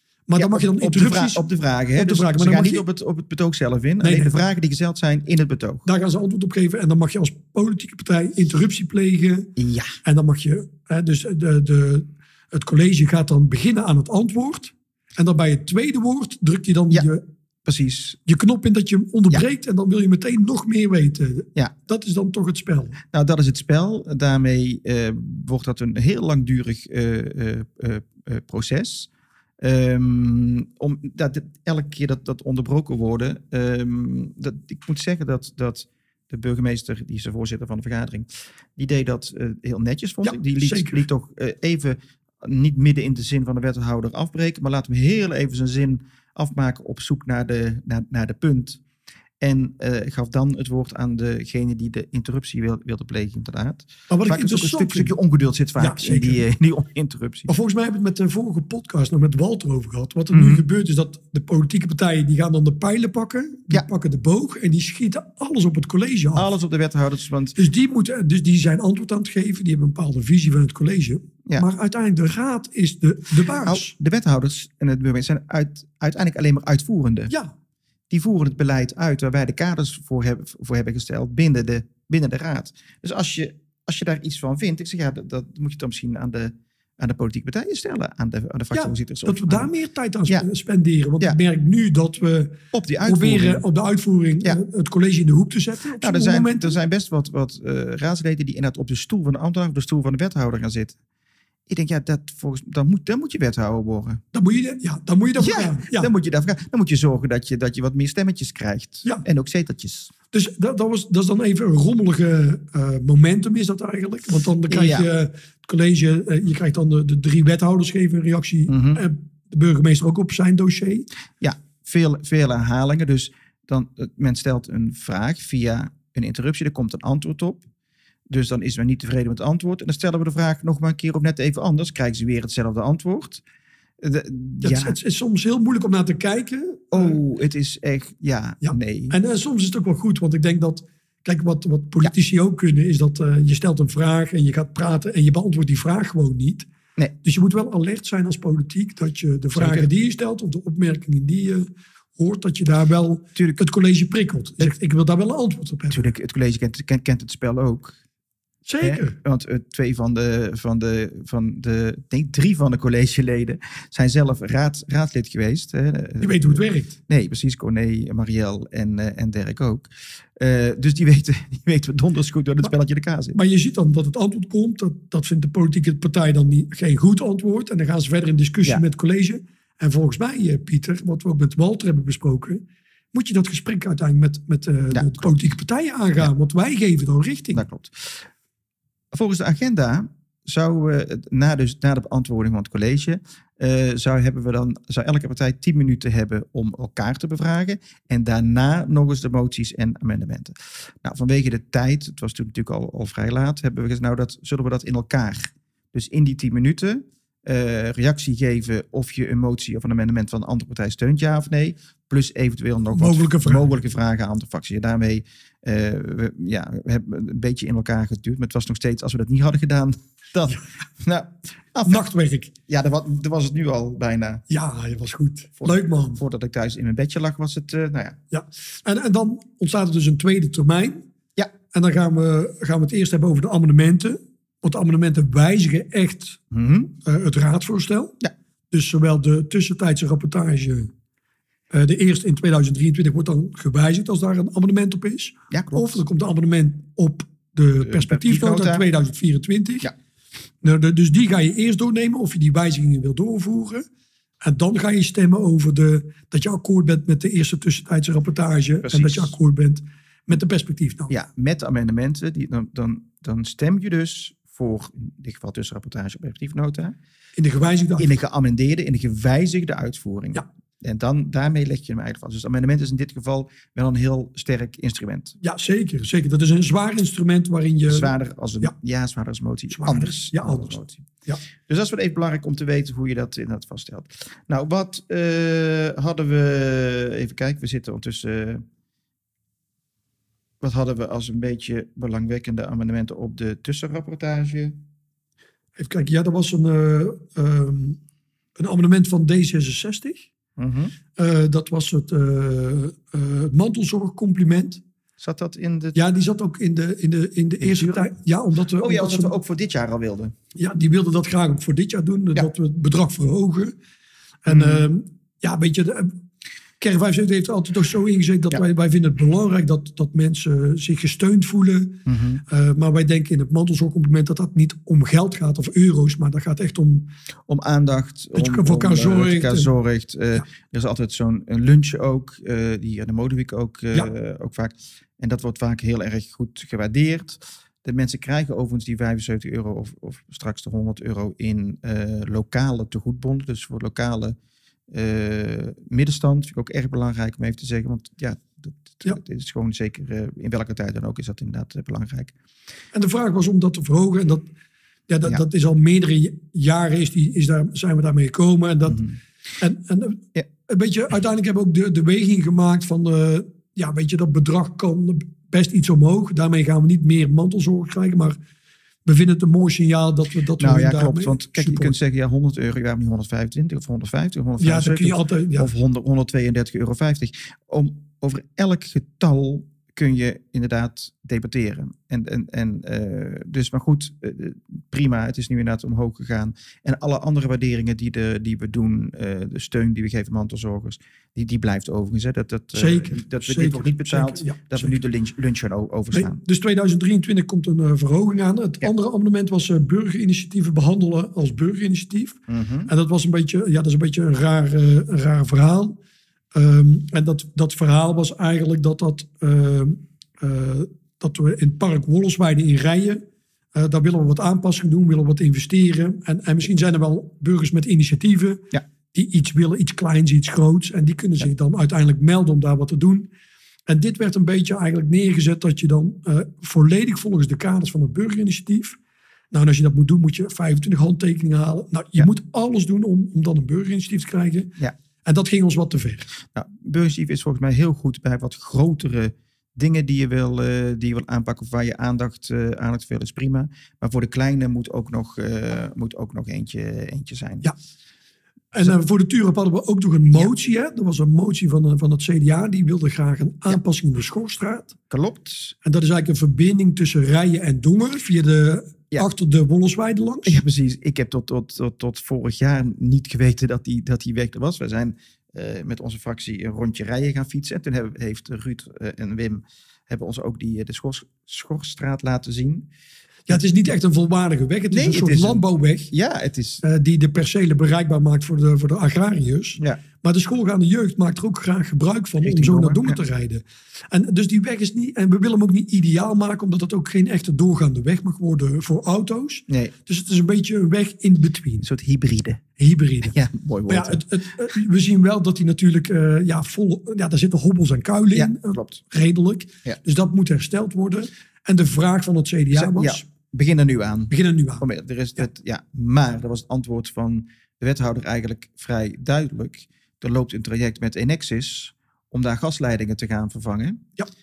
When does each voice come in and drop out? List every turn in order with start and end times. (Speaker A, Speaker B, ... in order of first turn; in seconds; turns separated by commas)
Speaker A: 0.3-1.4, Speaker B: 0.3-5.9, Speaker A: 1.9-2.8, Speaker A: 4.0-4.3, Speaker A: 5.8-9.5, Speaker B: 9.6-9.9, Speaker A: 10.0-17.2, Speaker B: 17.6-18.2, Speaker A: 18.3-23.0, Speaker B: 23.1-29.1, Speaker B: 29.6-48.8, Speaker A: 40.2-41.0, Speaker B: 49.4-57.5, Speaker A: 54.1-55.1, Speaker A: 55.8-56.4, Speaker A: 57.5-66.5, Speaker B: 60.3-60.6, Speaker B: 66.3-67.6, Speaker A: 67.6-73.9, Speaker B: 73.6-77.3, Speaker B: 78.1-89.7, Speaker A: 88.7-96.8, Speaker B: 92.7-93.6, Speaker B: 96.0-101.0, Speaker B: 101.7-104.2, Speaker A: 104.3-106.1, Speaker B: 105.4-110.1, Speaker A: 110.3-121.1, Speaker B: 114.7-115.1, Speaker B: 118.7-119.0, Speaker B: 121.4-127.6, Speaker B: 128.3-133.4, Speaker B: 134.0-135.0, Speaker A: 134.6-137.2, Speaker B: 136.9-139.2, Speaker A: 138.6-146.7, Speaker A: 147.2-156.1, Speaker B: 149.5-149.9, Speaker B: 153.3-153.6, Speaker B: 155.9-158.0, Speaker A: 158.6-159.2, Speaker B: 158.8-173.4, Speaker A: 166.2-166.9, Speaker A: 173.3-182.6, Speaker A: 183.1-187.6, Speaker B: 184.9-185.3, Speaker B: 187.5-188.2, Speaker B: 189.1-222.0, Speaker A: 212.9-213.7, Speaker A: 221.8-222.5, Speaker B: 222.7-224.4, Speaker A: 224.5-226.2, Speaker B: 225.6-228.2, Speaker A: 228.3-231.0, Speaker A: 231.7-236.4, Speaker B: 236.5-236.9, Speaker A: 237.0-238.1, Speaker A: 238.7-240.9, Speaker A: 241.7-249.9, Speaker B: 245.5-246.0, Speaker B: 247.8-248.8, Speaker A: 250.6-253.8, Speaker A: 254.4-261.1, Speaker B: 258.8-259.3, Speaker B: 261.1-266.9, Speaker A: 267.4-268.1, Speaker B: 268.0-275.4, Speaker A: 275.4-278.1, Speaker B: 277.9-281.1, Speaker A: 279.7-281.4, Speaker B: 281.6-288.6, Speaker B: 290.6-294.8, Speaker A: 295.8-298.0, Speaker A: 298.6-300.3, Speaker B: 300.6-300.9, Speaker A: 301.1-304.8, Speaker B: 305.2-306.0, Speaker A: 305.9-309.3, Speaker B: 307.6-308.1, Speaker B: 308.8-310.3, Speaker A: 310.6-313.8, Speaker A: 314.4-316.1, Speaker B: 314.5-314.9, Speaker A: 316.8-321.9, Speaker B: 322.1-322.4, Speaker A: 322.5-327.1, Speaker B: 327.5-344.4, Speaker A: 328.3-329.7, Speaker B: 344.9-352.3, Speaker A: 352.9-354.5, Speaker A: 355.1-359.1, Speaker B: 358.9-359.2, Speaker A: 359.6-368.4, Speaker A: 369.0-371.9, Speaker B: 370.6-396.4, Speaker A: 374.6-375.7, Speaker A: 392.7-394.9, Speaker A: 396.1-406.0, Speaker B: 402.5-402.9, Speaker A: 406.5-413.2, Speaker A: 413.7-423.3, Speaker A: 423.9-429.0, Speaker A: 429.5-434.7, Speaker A: 435.2-436.3, Speaker B: 436.5-447.7, Speaker A: 448.7-454.9, Speaker B: 455.1-455.7, Speaker A: 455.8-460.6, Speaker B: 460.4-472.9, Speaker A: 473.5-476.1, Speaker B: 474.9-476.8, Speaker A: 476.8-491.9, Speaker B: 482.4-483.2, Speaker B: 489.7-489.9, Speaker B: 491.8-492.6, Speaker A: 492.8-493.3, Speaker B: 493.2-494.2, Speaker A: 493.9-503.2, Speaker B: 498.3-499.0, Speaker B: 502.7-514.0, Speaker A: 504.3-504.8